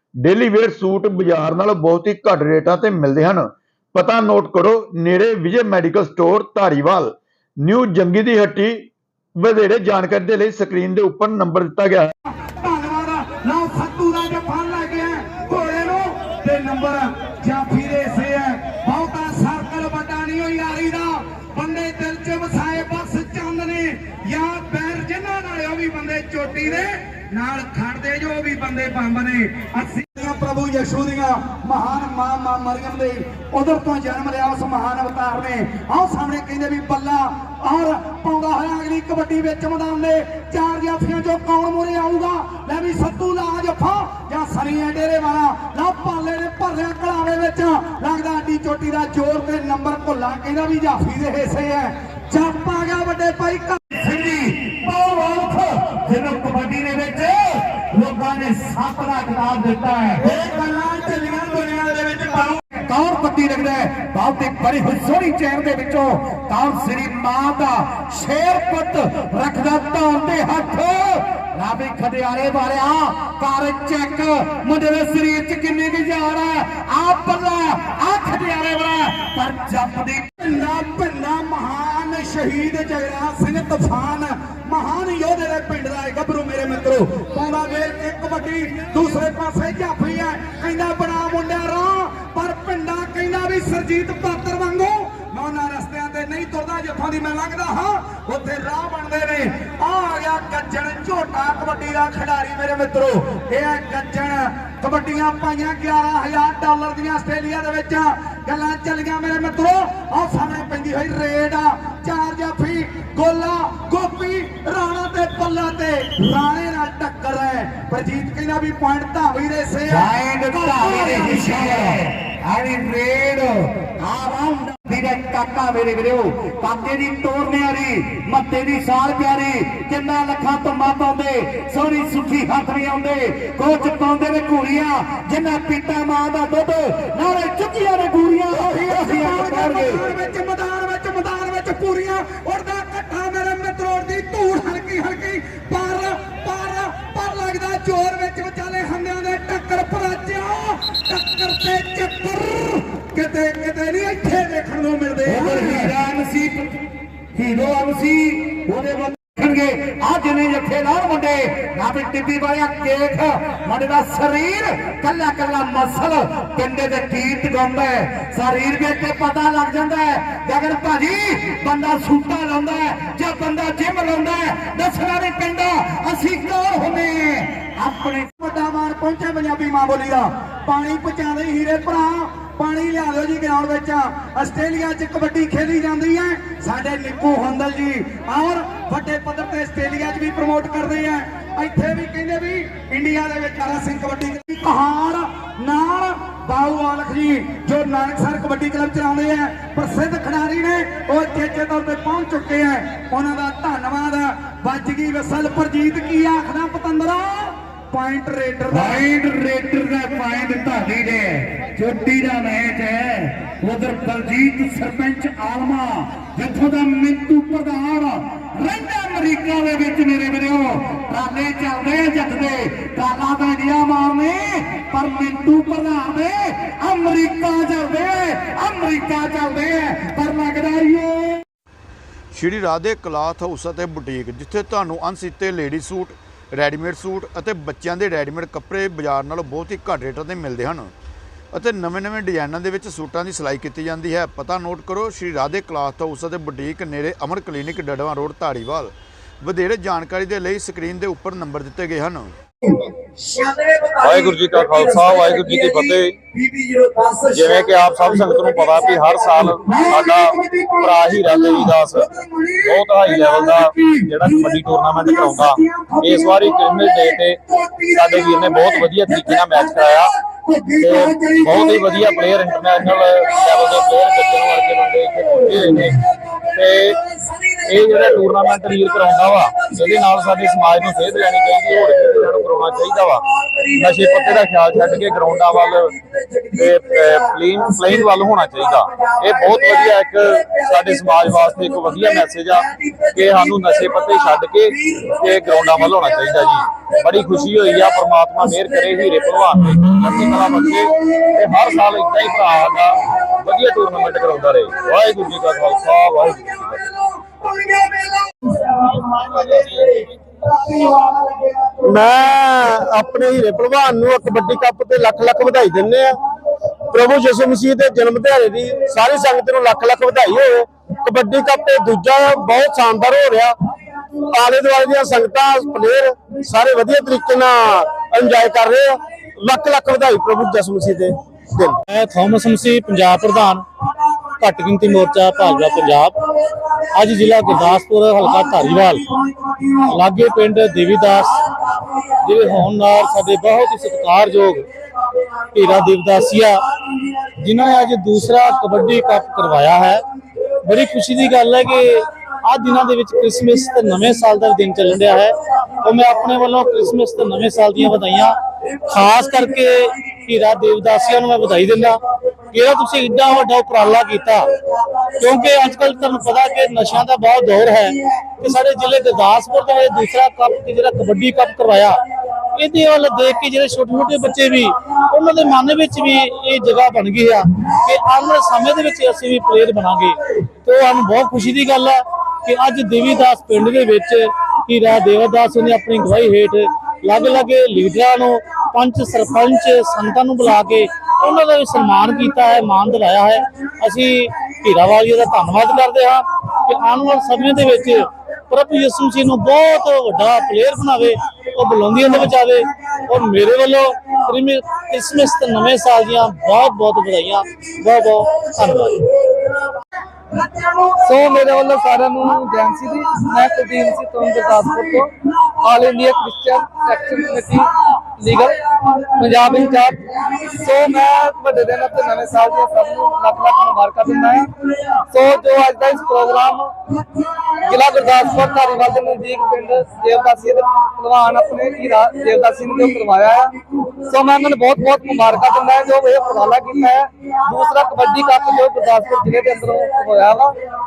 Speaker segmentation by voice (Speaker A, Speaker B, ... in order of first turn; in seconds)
Speaker A: 0.2-12.1, 232.3-240.9, 241.5-252.3
Speaker B: 12.4-53.9, 60.2-62.6, 80.4-121.8, 138.6-155.9, 178.3-209.0
Speaker C: 54.0-60.3, 62.9-80.3, 119.9-140.0, 155.3-156.7, 157.3-178.3, 208.7-231.4
Speaker D: 254.0-256.2, 257.3-262.1, 262.6-270.1, 270.8-276.0, 276.5-277.0, 277.6-285.9, 286.5-306.9, 309.0-309.9
Speaker E: 311.8-316.2, 316.9-323.6, 324.3-331.8
Speaker F: 331.9-333.7, 334.3-344.7, 345.4-346.6, 347.2-350.0, 350.6-409.1
Speaker G: 410.4-424.5, 425.1-426.7, 427.5-440.6